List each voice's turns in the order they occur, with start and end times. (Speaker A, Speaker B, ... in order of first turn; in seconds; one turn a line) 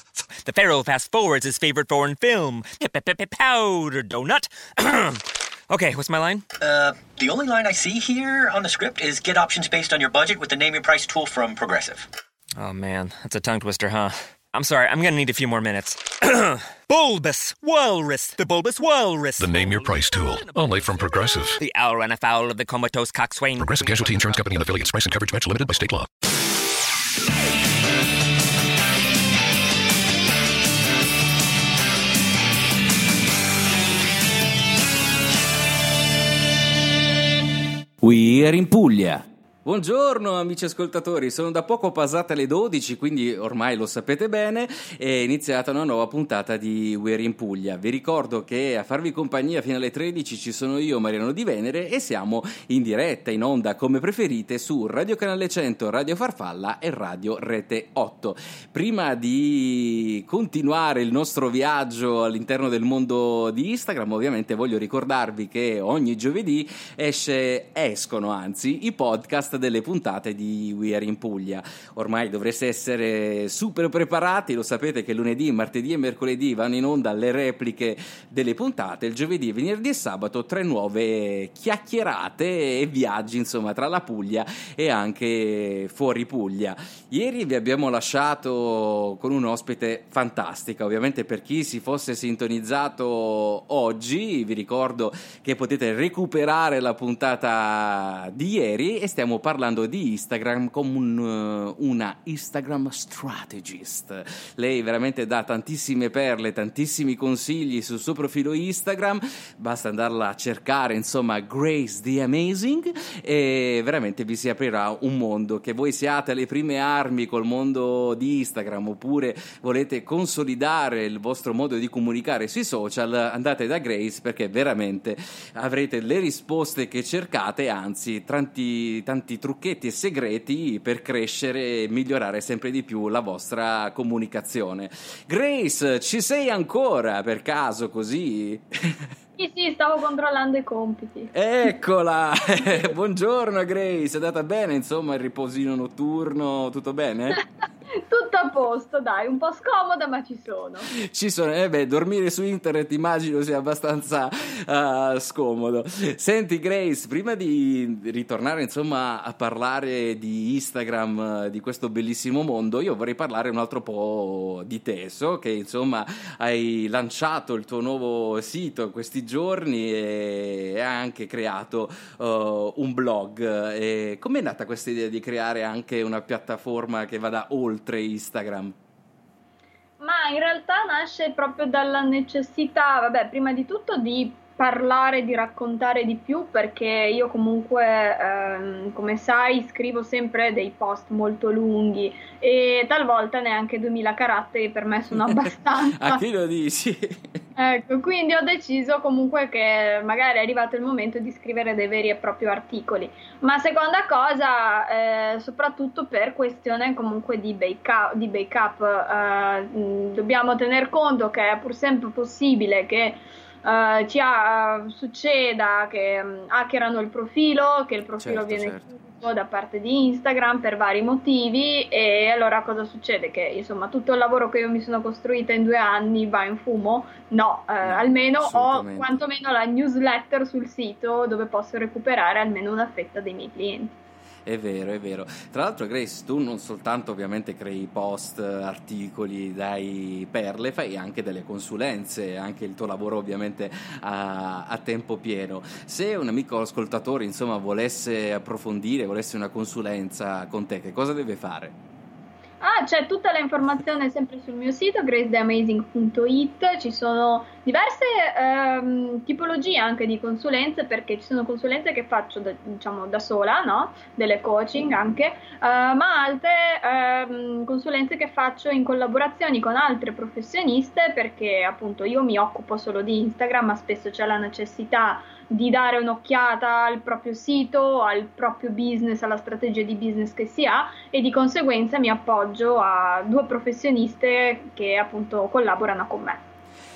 Speaker A: 0.4-6.5
Speaker B: 6.6-12.1
Speaker A: 12.6-24.4
Speaker C: 19.4-21.6
Speaker C: 23.6-26.1
Speaker D: 38.0-139.1
Speaker E: 139.4-141.3
Speaker D: 141.3-147.4
Speaker E: 147.9-150.9
Speaker D: 150.9-178.8
Speaker E: 180.0-196.2
Speaker D: 196.0-197.4
Speaker E: 197.6-233.9
Speaker D: 218.2-218.9
Speaker D: 227.8-229.2
Speaker D: 234.4-251.8
Speaker E: 252.6-286.4